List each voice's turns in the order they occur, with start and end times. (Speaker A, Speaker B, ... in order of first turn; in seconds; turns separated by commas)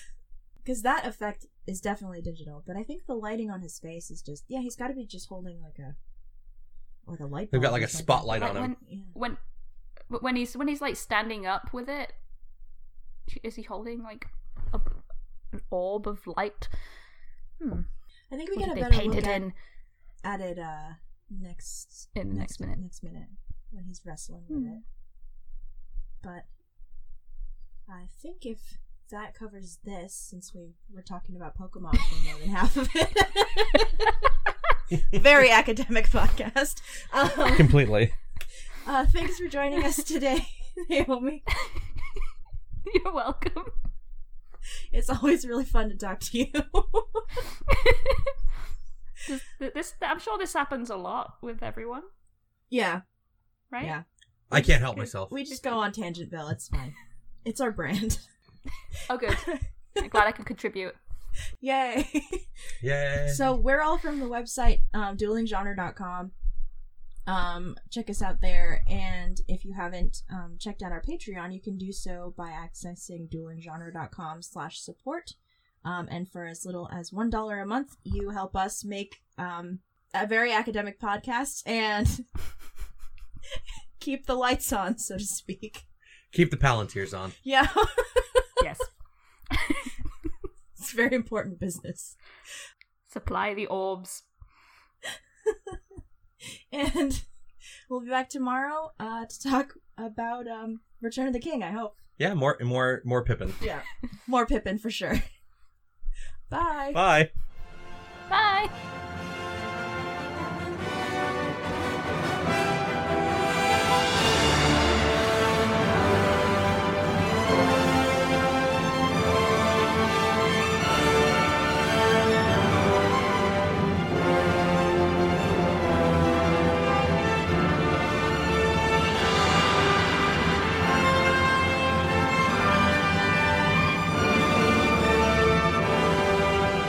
Speaker A: 0.6-6.0, Speaker A: 7.1-9.1, Speaker B: 7.5-8.7, Speaker C: 8.3-9.4, Speaker C: 10.1-12.1, Speaker C: 13.3-14.9, Speaker C: 15.5-16.7, Speaker C: 17.6-17.9, Speaker A: 18.3-19.4, Speaker C: 18.6-19.5, Speaker A: 20.2-24.8, Speaker C: 22.1-22.8, Speaker C: 24.5-24.8, Speaker A: 27.9-34.2, Speaker A: 35.0-37.9, Speaker B: 37.5-38.1, Speaker A: 38.8-41.5, Speaker C: 41.5-42.2, Speaker C: 42.9-43.7, Speaker A: 44.9-47.4, Speaker C: 47.7-48.4, Speaker C: 49.2-52.1, Speaker A: 52.7-53.0, Speaker B: 54.5-55.4, Speaker C: 54.5-55.7, Speaker A: 55.3-58.2, Speaker C: 59.1-61.0, Speaker A: 59.3-60.0, Speaker A: 61.6-62.5, Speaker B: 62.8-63.4, Speaker A: 63.2-66.3, Speaker A: 67.3-82.3, Speaker A: 84.0-85.8, Speaker B: 86.3-87.3, Speaker A: 87.4-88.5, Speaker C: 88.6-88.9, Speaker C: 89.5-89.9, Speaker A: 90.8-92.2, Speaker C: 93.1-94.3, Speaker A: 95.1-95.8, Speaker A: 96.7-97.2, Speaker A: 97.9-102.0, Speaker B: 102.2-103.6, Speaker A: 103.6-105.2, Speaker A: 106.5-107.0, Speaker B: 106.9-107.3, Speaker C: 108.3-108.7